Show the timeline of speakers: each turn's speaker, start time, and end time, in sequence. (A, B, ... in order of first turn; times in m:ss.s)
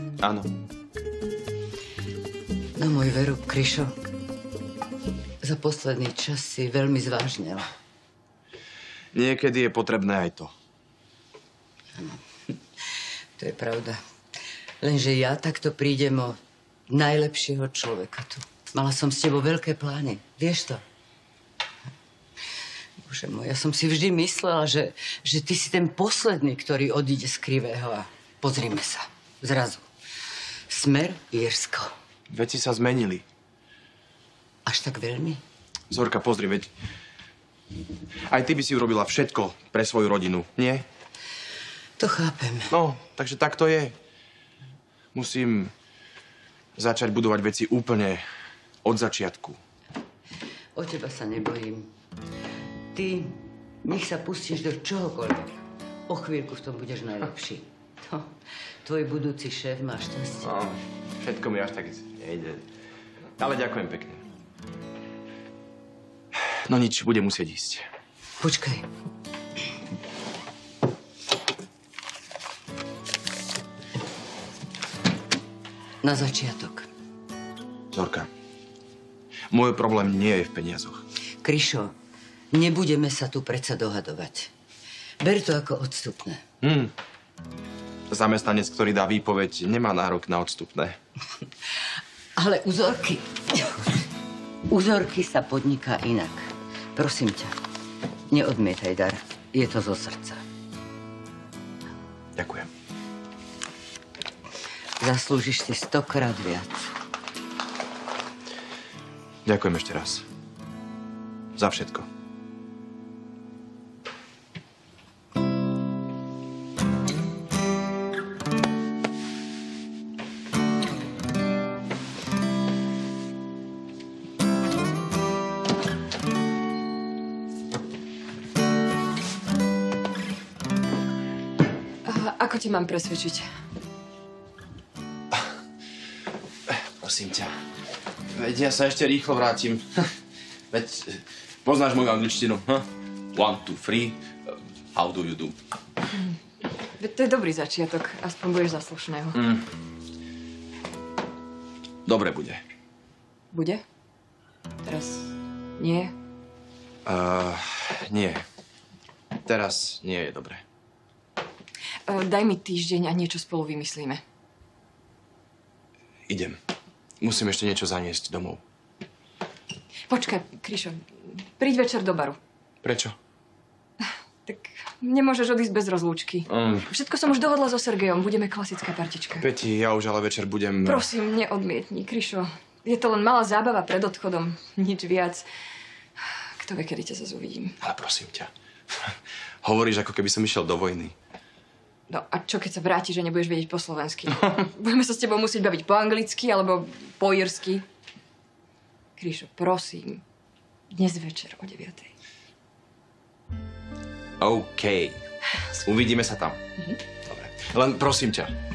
0:00.2-0:00.5 A
0:02.8-0:03.9 B
0:05.4-0:07.7 B
0:09.1-0:10.5 A
0:13.4-0:14.0 B
0:14.8-0:16.4 B
0:16.9-0:20.8 B
0:23.0-0:29.9 B
0:30.7-0:31.9 B
0:32.3-0:33.2 A
0:34.6-0:35.4 B
0:35.9-0:36.7 A
0:38.3-0:40.8 A
0:42.0-0:42.7 B
0:42.7-0:43.9 A
0:45.1-0:45.7 A
0:46.8-0:48.2 A
0:48.8-0:49.6 A
0:50.8-0:51.9 B
0:52.9-0:55.5 B
0:56.1-0:58.3 B
0:58.8-1:00.5 B
1:00.4-1:02.6 A
1:03.4-1:04.2 A
1:06.6-1:07.9 A
1:08.4-1:08.8 B
1:16.0-1:16.9 B
1:17.9-1:18.3 A
1:19.5-1:21.0 A
1:21.4-1:21.9 B
1:22.5-1:24.5 B
1:25.2-1:26.4 B
1:26.6-1:26.9 A
1:28.1-1:31.0 A
1:32.4-1:34.0 B
1:34.7-1:37.5 B
1:38.3-1:40.4 B
1:42.4-1:42.7 A
1:45.0-1:46.9 B
1:49.4-1:50.2 A
1:51.6-1:52.1 A
2:12.0-2:13.5 C
2:16.7-2:17.5 A
2:18.3-2:20.1 A
2:20.7-2:25.6 A
2:27.0-2:29.4 C
2:29.3-2:29.6 A
2:32.0-2:32.6 A
2:33.5-2:33.8 C
2:34.8-2:36.1 C
2:37.0-2:38.4 A
2:39.4-2:40.6 A
2:42.1-2:44.2 C
2:46.3-2:46.6 A
2:47.2-2:48.6 A
2:50.1-2:52.4 C
2:52.8-2:53.1 A
2:54.4-2:59.5 C
2:56.5-2:56.9 A
2:59.4-3:01.1 A
3:00.8-3:05.5 C
3:06.6-3:07.8 C
3:07.8-3:11.1 A
3:12.1-3:17.8 C
3:19.2-3:20.2 C
3:20.9-3:22.1 C
3:24.4-3:25.2 A
3:25.7-3:26.6 A
3:27.2-3:28.5 A